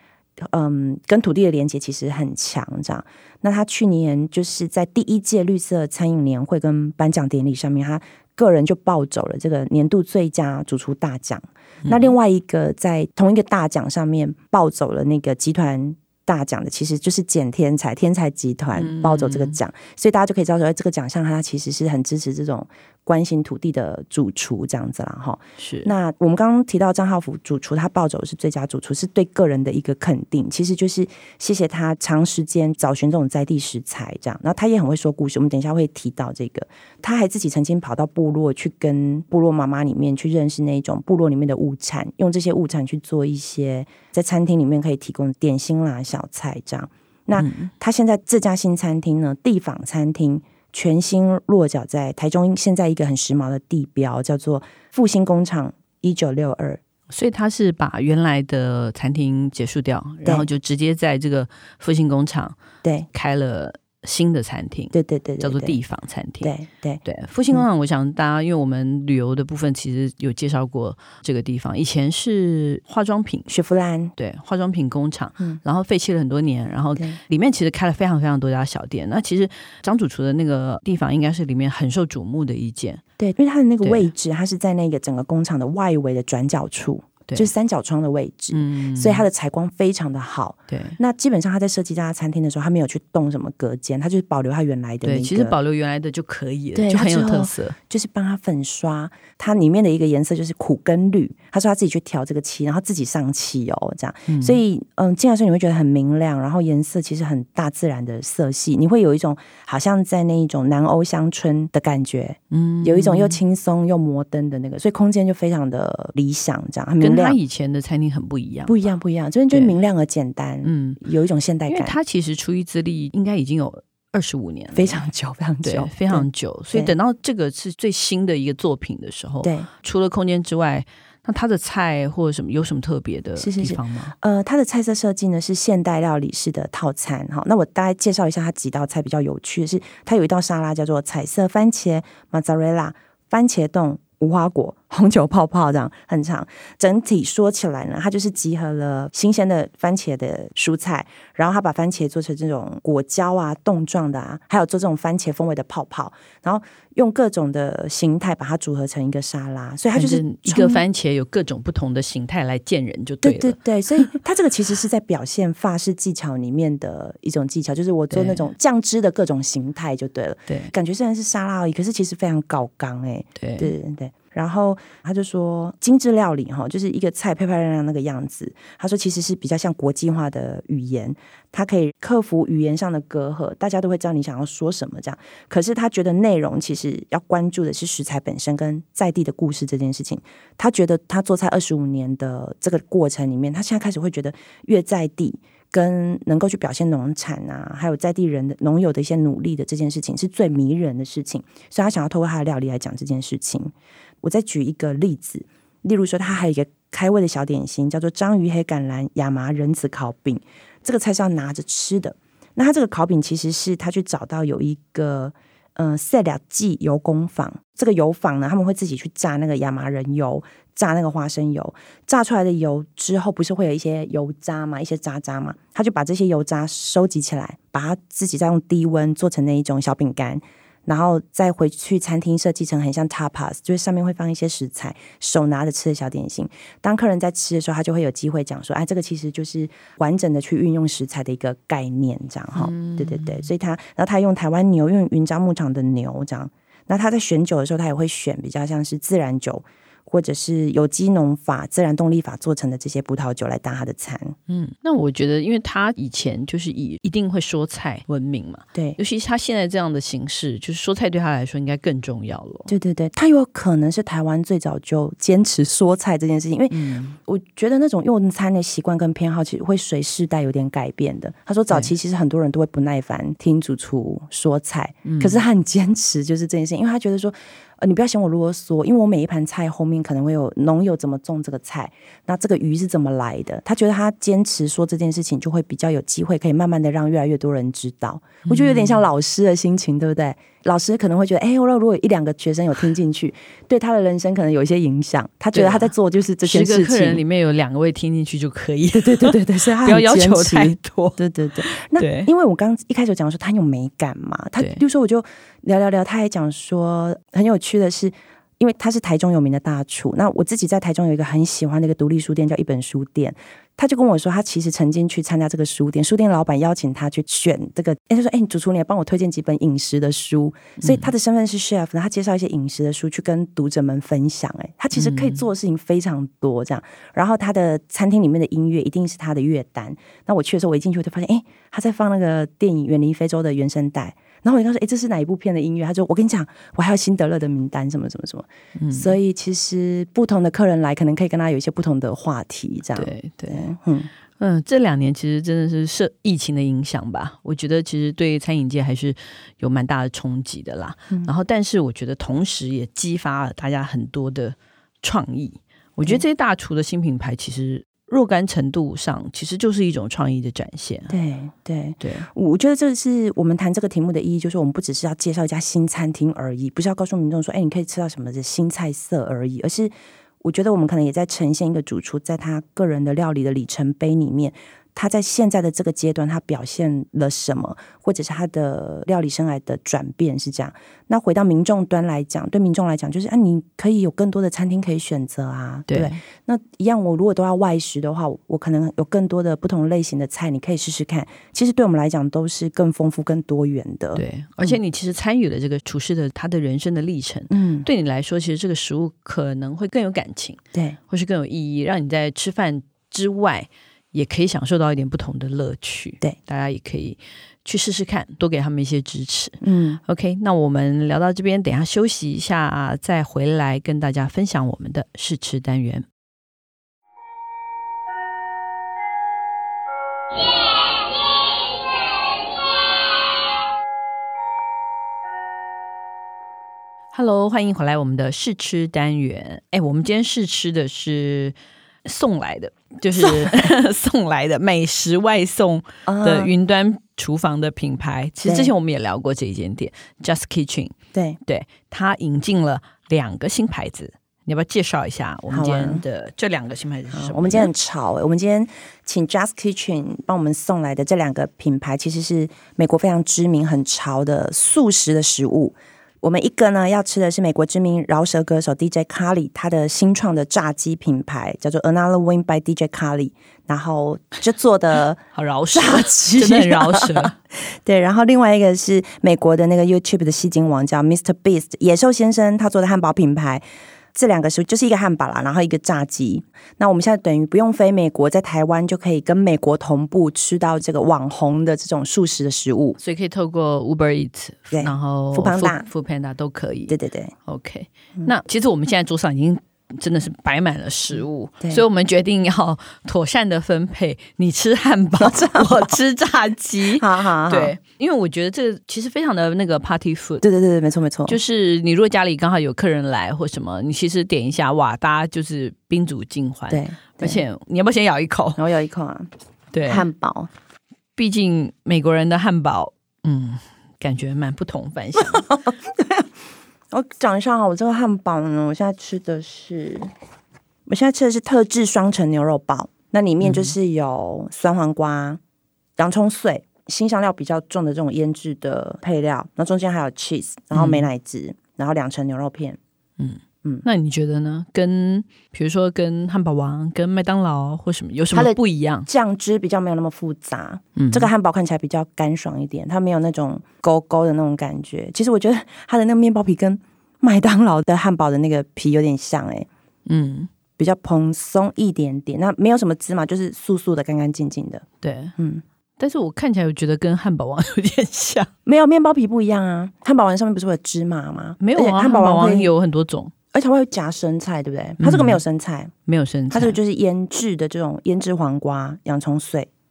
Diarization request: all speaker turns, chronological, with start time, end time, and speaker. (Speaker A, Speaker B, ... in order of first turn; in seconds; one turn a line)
Speaker A: 0.4-56.8
Speaker B: 11.8-12.1
Speaker B: 18.7-19.6
Speaker B: 25.6-25.9
Speaker B: 47.4-47.7
Speaker B: 57.1-62.6
Speaker B: 63.1-66.5
Speaker A: 64.9-65.8
Speaker A: 66.4-67.6
Speaker B: 67.0-73.5
Speaker A: 73.5-74.1
Speaker B: 74.2-83.0
Speaker A: 83.2-95.5
Speaker B: 83.8-84.1
Speaker B: 88.5-89.2
Speaker B: 90.7-91.0
Speaker B: 95.0-97.8
Speaker A: 96.7-117.4
Speaker B: 104.3-104.6
Speaker B: 112.5-113.4
Speaker B: 117.0-118.7
Speaker A: 118.7-122.0
Speaker B: 120.6-121.0
Speaker B: 121.7-125.0
Speaker A: 124.7-126.9
Speaker B: 125.6-134.1
Speaker A: 129.4-129.7
Speaker A: 133.4-160.8
Speaker B: 159.9-164.1
Speaker A: 163.2-254.3
Speaker B: 168.1-168.4
Speaker B: 173.3-173.7
Speaker B: 242.5-243.5
Speaker B: 254.5-262.7
Speaker A: 262.7-297.2
Speaker B: 266.7-267.1
Speaker B: 275.0-275.4
Speaker B: 288.4-289.0
Speaker B: 295.5-295.9
Speaker B: 296.4-302.3
Speaker A: 298.9-344.1
Speaker B: 320.8-321.1
Speaker B: 324.9-325.4
Speaker B: 338.8-339.1
Speaker B: 342.9-343.7
Speaker B: 344.4-361.1
Speaker A: 361.1-394.8
Speaker B: 362.0-362.3
Speaker B: 385.9-386.2
Speaker B: 394.1-416.1
Speaker A: 397.5-397.9
Speaker A: 409.6-410.0
Speaker B: 427.1-447.7
Speaker A: 433.2-433.7
Speaker A: 436.1-436.5
Speaker A: 438.4-438.7
Speaker A: 441.1-441.4
Speaker A: 445.5-446.0
Speaker A: 447.1-465.2
Speaker B: 465.3-467.3
Speaker A: 465.7-473.6
Speaker A: 474.1-483.0
Speaker B: 483.0-500.4
Speaker A: 484.7-485.8
Speaker A: 486.9-487.3
Speaker A: 495.2-495.9
Speaker A: 496.9-497.7
Speaker A: 500.4-501.4
Speaker B: 501.3-508.6
Speaker A: 506.7-507.4
Speaker A: 508.6-509.3
Speaker B: 509.7-510.1
Speaker A: 509.9-510.5
Speaker B: 511.1-515.5
Speaker A: 515.2-516.3
Speaker A: 516.9-520.1
Speaker A: 520.9-525.4
Speaker B: 523.4-523.7
Speaker A: 526.0-532.8
Speaker B: 530.7-531.0
Speaker B: 533.2-539.1
Speaker A: 538.3-549.7
Speaker B: 541.0-541.3
Speaker B: 550.0-550.5
Speaker A: 550.8-554.8
Speaker B: 555.0-555.3
Speaker A: 555.4-555.6
Speaker B: 556.0-558.5
Speaker A: 558.6-562.7
Speaker B: 561.6-563.3
Speaker A: 563.5-565.9
Speaker B: 565.0-565.4
Speaker B: 566.1-566.8
Speaker A: 566.5-569.7